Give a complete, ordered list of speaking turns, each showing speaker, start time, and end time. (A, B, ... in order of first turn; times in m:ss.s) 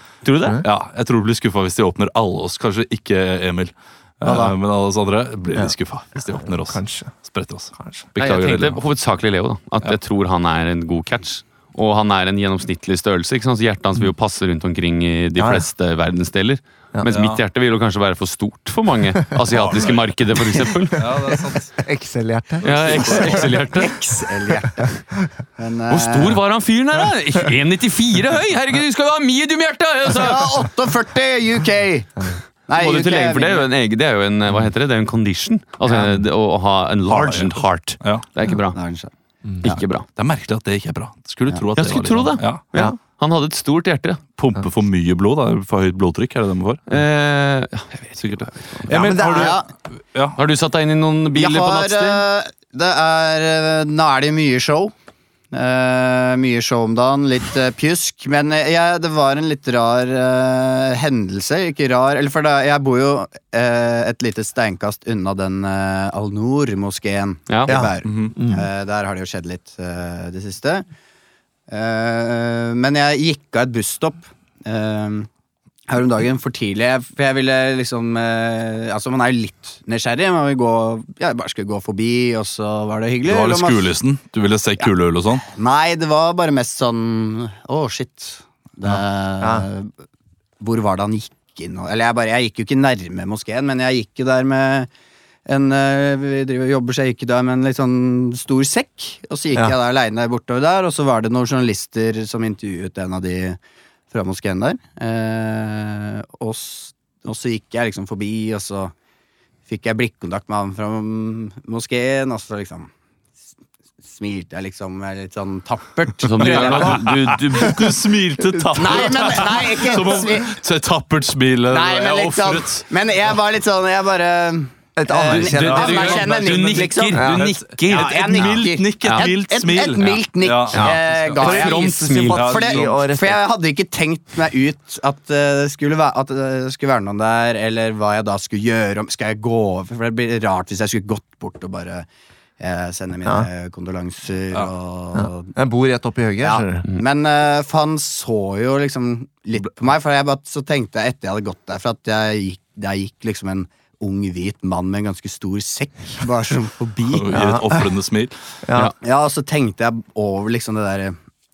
0:00.2-0:00.6 A
0:00.6-0:08.8 B
0:04.2-0:04.5 C
0:06.4-0:07.1 C
0:07.8-0:08.0 C
0:08.2-0:21.0 A
0:15.4-0:15.6 C
0:17.1-0:17.4 B
0:19.5-0:20.1 B
0:20.9-0:23.5 C
0:20.9-0:21.8 B
0:22.6-0:23.6 B
0:22.6-0:23.9 A
0:23.8-0:25.0 D
0:24.6-0:25.2 C
0:25.6-0:26.4 D
0:25.9-0:30.5 A
0:30.1-0:32.1 D
0:32.7-0:33.7 D
0:32.7-0:38.8 A
0:37.1-0:38.2 B
0:38.7-0:39.1 D
0:39.6-0:40.1 A
0:40.2-0:42.6 B
0:41.7-0:44.2 A
0:44.4-0:46.8 B
0:46.9-0:48.9 A
0:48.2-0:50.4 B
0:48.9-0:49.6 C
0:49.1-0:49.6 D
0:50.4-0:52.2 A
0:51.3-0:54.9 D
0:55.5-1:10.9 D
1:07.7-1:08.7 C
1:08.0-1:08.3 B
1:11.7-1:15.3 D
1:15.9-1:23.9 D
1:23.2-1:25.4 B
1:25.4-1:29.9 D
1:29.4-1:29.6 C
1:30.6-1:34.9 D
1:35.4-1:43.6 D
1:44.1-1:48.9 D
1:49.7-1:52.9 D
1:54.0-1:57.0 D
1:56.2-1:57.9 A
1:56.4-2:02.9 B
1:58.5-2:00.2 C
1:58.8-2:00.5 D
2:01.7-2:07.2 D
2:05.0-2:06.1 C
2:05.3-2:09.3 A
2:05.3-2:11.6 B
2:07.1-2:07.5 C
2:07.9-2:22.1 D
2:10.7-2:13.4 C
2:11.3-2:12.4 A
2:12.3-2:13.0 B
2:22.6-2:25.5 D
2:25.1-2:26.8 C
2:26.4-2:37.4 D
2:37.1-2:38.3 B
2:37.3-2:37.9 C
2:38.6-2:38.9 C
2:39.0-2:41.2 D